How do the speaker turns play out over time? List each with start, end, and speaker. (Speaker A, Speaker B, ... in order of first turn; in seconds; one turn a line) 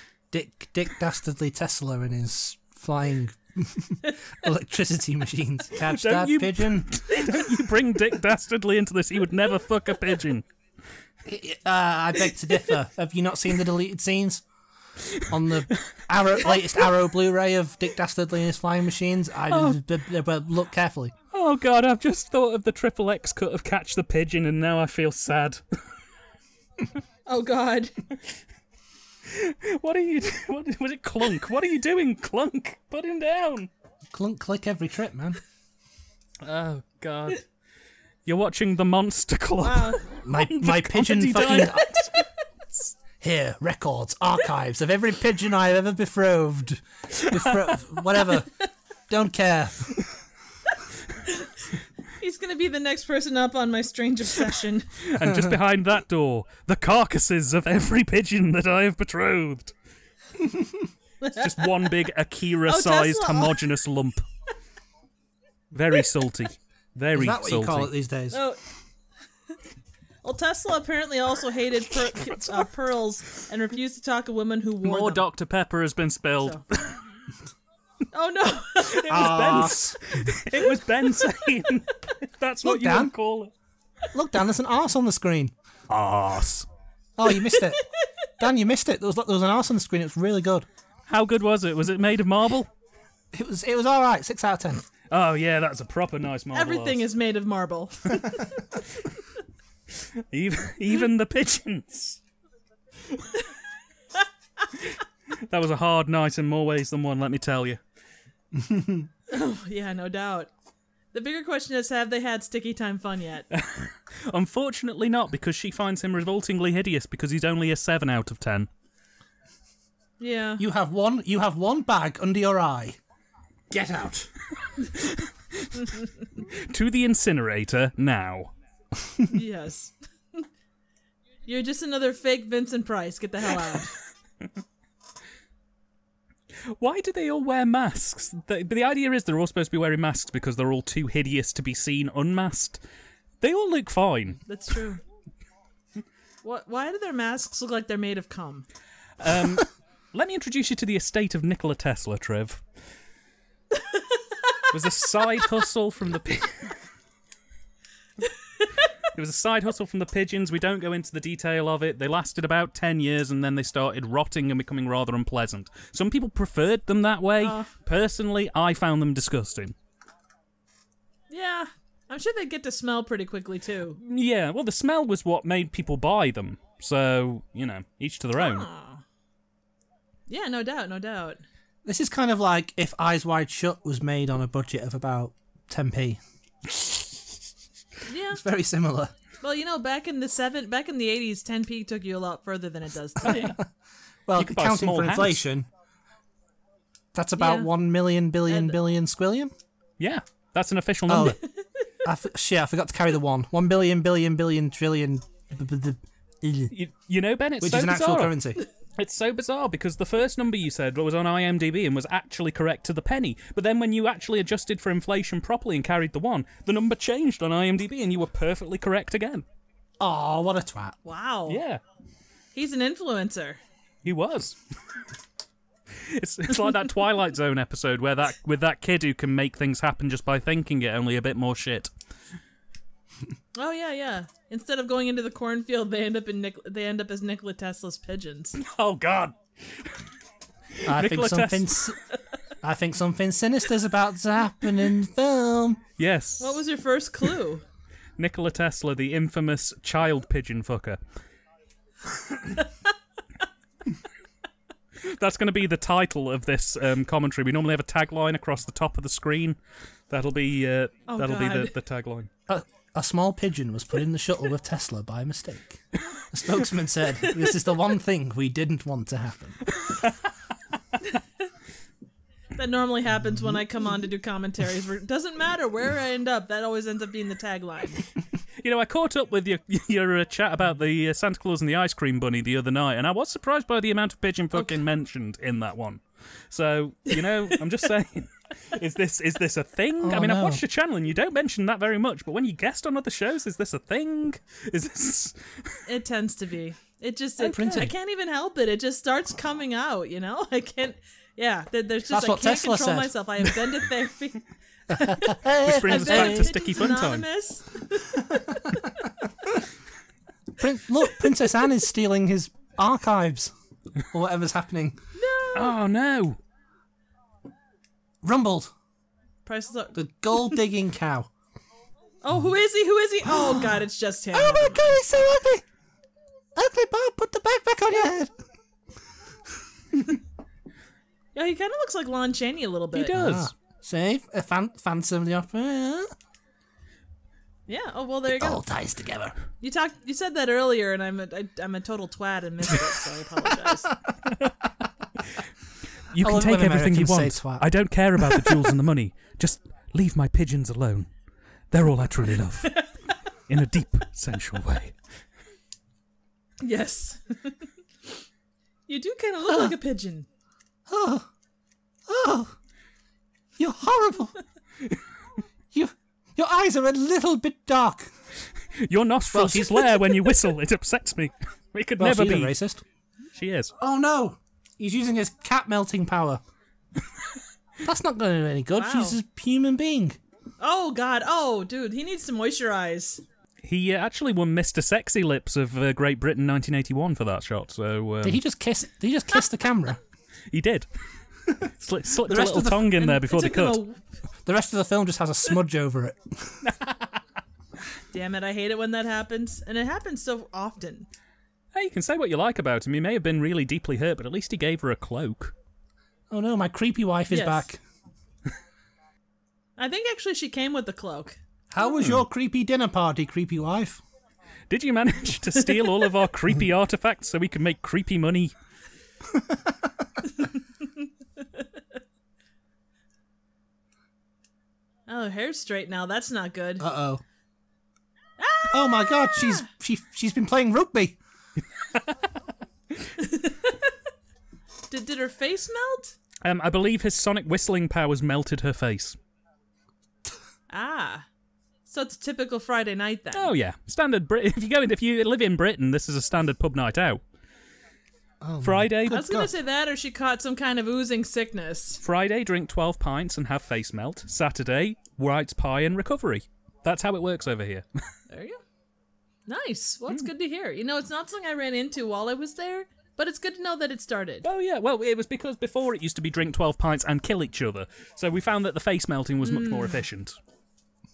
Speaker A: 0.3-7.0
Speaker B: 5.8-10.4
Speaker A: 11.2-14.4
Speaker B: 15.0-16.0
Speaker A: 15.2-21.1
Speaker C: 19.5-19.8
Speaker B: 21.3-25.6
Speaker C: 27.3-27.9
Speaker B: 29.2-33.7
Speaker A: 34.1-35.4
Speaker B: 36.4-37.5
Speaker B: 38.2-42.2
Speaker C: 39.6-40.1
Speaker A: 40.2-42.1
Speaker A: 43.2-48.5
Speaker B: 47.1-47.8
Speaker A: 49.1-50.1
Speaker C: 51.3-51.5
Speaker C: 52.2-55.0
Speaker B: 55.0-59.7
Speaker A: 55.2-55.5
Speaker A: 60.5-60.8
Speaker C: 61.2-61.7
Speaker B: 61.3-64.2
Speaker C: 62.6-63.6
Speaker B: 65.7-67.9
Speaker A: 67.1-68.4
Speaker C: 68.3-68.6
Speaker C: 70.2-75.2
Speaker B: 72.0-72.6
Speaker B: 74.8-77.0
Speaker C: 78.1-79.8
Speaker B: 78.8-83.5
Speaker A: 79.1-80.0
Speaker A: 82.6-83.1
Speaker A: 84.1-85.5
Speaker B: 85.9-86.7
Speaker A: 87.2-87.8
Speaker C: 87.3-87.8
Speaker A: 88.4-90.7
Speaker B: 91.1-92.7
Speaker A: 93.3-94.8
Speaker B: 95.1-97.0
Speaker C: 96.5-98.8
Speaker B: 99.9-102.2
Speaker B: 104.7-107.8
Speaker A: 108.6-109.1
Speaker C: 109.3-110.5
Speaker C: 111.1-113.5
Speaker B: 113.5-118.7
Speaker C: 120.2-120.6
Speaker A: 120.6-123.0
Speaker A: 123.7-124.3
Speaker B: 124.8-128.5
Speaker C: 129.3-130.4
Speaker C: 131.4-133.9
Speaker B: 136.6-142.8
Speaker B: 143.4-144.4
Speaker C: 144.5-145.0
Speaker C: 146.4-148.7
Speaker B: 149.2-152.6
Speaker B: 154.7-156.7
Speaker B: 159.1-169.8
Speaker C: 167.4-167.7
Speaker C: 171.3-174.0
Speaker B: 174.0-178.7
Speaker C: 178.4-179.0
Speaker C: 180.3-181.4
Speaker A: 181.8-186.2
Speaker C: 188.1-188.4
Speaker A: 188.3-189.1
Speaker C: 189.4-193.6
Speaker B: 193.2-193.6
Speaker A: 194.3-195.7
Speaker B: 194.3-195.4
Speaker A: 197.1-199.5
Speaker C: 197.4-197.7
Speaker C: 198.5-198.8
Speaker B: 200.0-201.4
Speaker A: 201.1-201.4
Speaker C: 201.5-201.8
Speaker A: 202.0-206.7
Speaker B: 206.7-208.4
Speaker A: 207.6-208.6
Speaker B: 208.9-219.4
Speaker A: 220.0-221.0
Speaker C: 221.0-221.6
Speaker B: 221.5-221.8
Speaker C: 222.5-223.6
Speaker B: 224.0-224.6
Speaker B: 225.9-231.9
Speaker C: 233.6-238.6
Speaker B: 238.6-240.0
Speaker B: 240.7-241.9
Speaker A: 240.8-242.0
Speaker A: 242.6-245.8
Speaker B: 246.0-246.6
Speaker C: 246.4-247.6
Speaker B: 248.2-251.0
Speaker B: 255.0-259.6
Speaker B: 260.1-262.3
Speaker C: 261.1-261.7
Speaker A: 262.5-269.6
Speaker C: 267.2-267.6
Speaker B: 269.6-270.3
Speaker C: 272.6-278.1
Speaker B: 278.6-295.8
Speaker A: 290.0-290.6
Speaker C: 295.9-304.4
Speaker A: 297.4-297.9
Speaker A: 302.1-303.1
Speaker A: 304.9-306.5
Speaker C: 305.0-309.1
Speaker B: 305.3-307.2
Speaker A: 310.6-315.0
Speaker C: 315.1-315.8
Speaker B: 315.5-316.4
Speaker A: 318.2-318.7
Speaker C: 319.4-319.9
Speaker A: 319.9-321.3
Speaker C: 322.2-324.9
Speaker A: 324.3-325.6
Speaker A: 326.5-328.3
Speaker C: 331.3-333.2
Speaker B: 332.9-333.5
Speaker A: 333.1-336.1
Speaker C: 337.7-338.6
Speaker A: 338.3-339.3
Speaker C: 339.6-343.9
Speaker B: 345.2-345.5
Speaker B: 346.1-351.1
Speaker A: 346.2-347.6
Speaker A: 348.2-348.7
Speaker B: 351.7-352.8
Speaker B: 353.5-355.0
Speaker C: 356.6-357.7
Speaker C: 358.9-360.3
Speaker A: 359.5-359.7
Speaker A: 360.9-361.3
Speaker A: 362.1-362.5
Speaker A: 363.6-364.4
Speaker A: 365.7-368.1
Speaker B: 368.7-372.5
Speaker A: 369.3-370.1
Speaker A: 372.0-372.8
Speaker B: 373.3-373.7
Speaker A: 373.8-376.4
Speaker A: 377.8-380.2
Speaker C: 378.8-379.2
Speaker C: 380.6-383.2
Speaker B: 383.6-388.4
Speaker A: 388.2-390.0
Speaker B: 390.5-390.9
Speaker B: 391.6-393.8
Speaker A: 392.2-392.9
Speaker C: 392.9-394.0
Speaker A: 394.4-396.6
Speaker B: 396.6-397.2
Speaker C: 398.1-401.1
Speaker B: 401.7-405.5
Speaker A: 406.3-407.8
Speaker C: 407.3-407.6
Speaker C: 409.8-411.4
Speaker A: 411.7-414.0
Speaker B: 414.7-418.5
Speaker A: 419.3-419.9
Speaker C: 425.1-426.8
Speaker A: 426.8-427.2
Speaker C: 428.4-429.6
Speaker A: 428.7-431.2
Speaker B: 431.8-432.1
Speaker C: 433.2-433.9
Speaker C: 434.9-436.2
Speaker B: 436.4-439.2
Speaker C: 440.7-441.2
Speaker C: 441.9-443.5
Speaker B: 443.3-447.2
Speaker A: 448.4-449.5
Speaker B: 448.6-449.2
Speaker C: 449.1-452.0
Speaker B: 452.0-458.1
Speaker C: 458.3-458.6
Speaker C: 459.5-464.4
Speaker B: 464.4-470.4
Speaker C: 469.4-470.0